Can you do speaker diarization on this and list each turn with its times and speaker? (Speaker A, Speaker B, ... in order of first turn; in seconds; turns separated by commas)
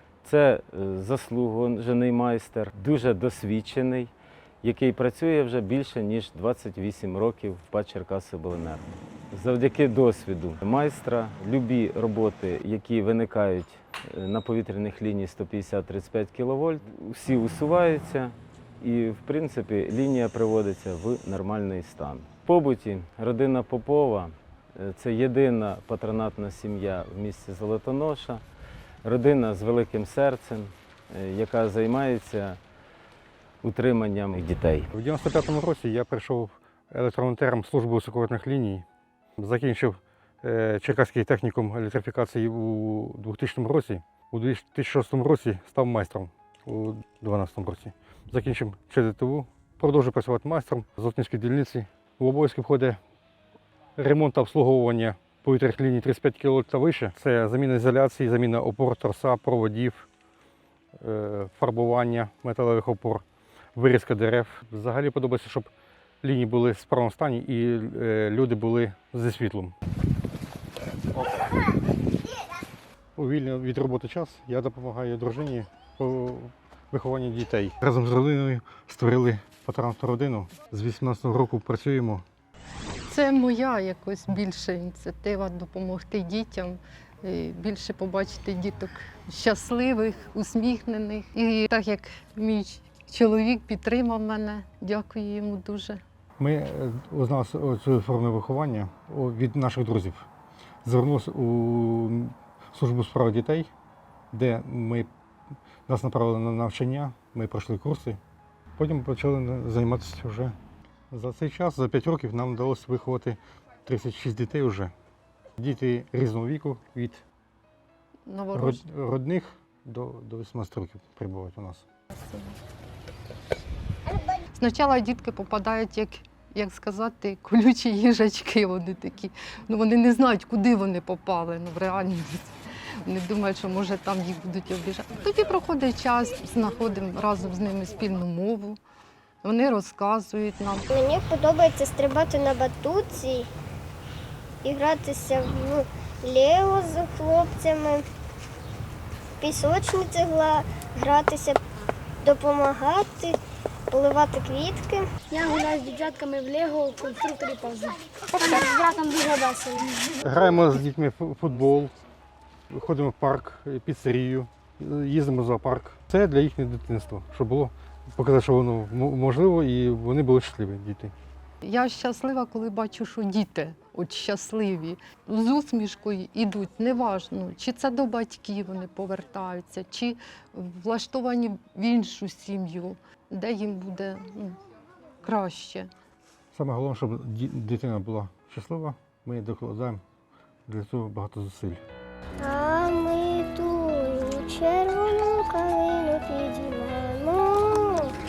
Speaker A: 0.2-4.1, Speaker A: 4.6-28.4, Speaker A: 29.0-32.6, Speaker A: 33.6-34.9, Speaker B: 34.9-38.8, Speaker B: 39.4-53.0, Speaker B: 54.0-60.1, Speaker B: 61.0-63.2, Speaker B: 63.8-65.7, Speaker B: 66.2-69.8, Speaker B: 73.2-82.2, Speaker C: 83.1-96.0, Speaker B: 96.4-100.3, Speaker B: 100.8-103.7, Speaker B: 104.3-105.1, Speaker B: 105.9-108.2, Speaker B: 108.8-110.5, Speaker B: 111.1-114.9, Speaker B: 115.6-117.2, Speaker C: 118.3-118.8, Speaker B: 118.5-121.9, Speaker C: 122.1-122.6, Speaker C: 124.5-138.8, Speaker C: 139.4-140.9, Speaker D: 140.9-143.5, Speaker D: 144.6-148.1, Speaker D: 149.4-151.6, Speaker D: 152.2-153.4, Speaker D: 153.9-155.1, Speaker E: 155.3-160.2, Speaker B: 160.2-161.9, Speaker B: 162.7-171.1, Speaker C: 171.6-184.6, Speaker C: 185.2-185.9, Speaker B: 186.5-190.0, Speaker B: 190.7-191.8, Speaker D: 192.4-198.2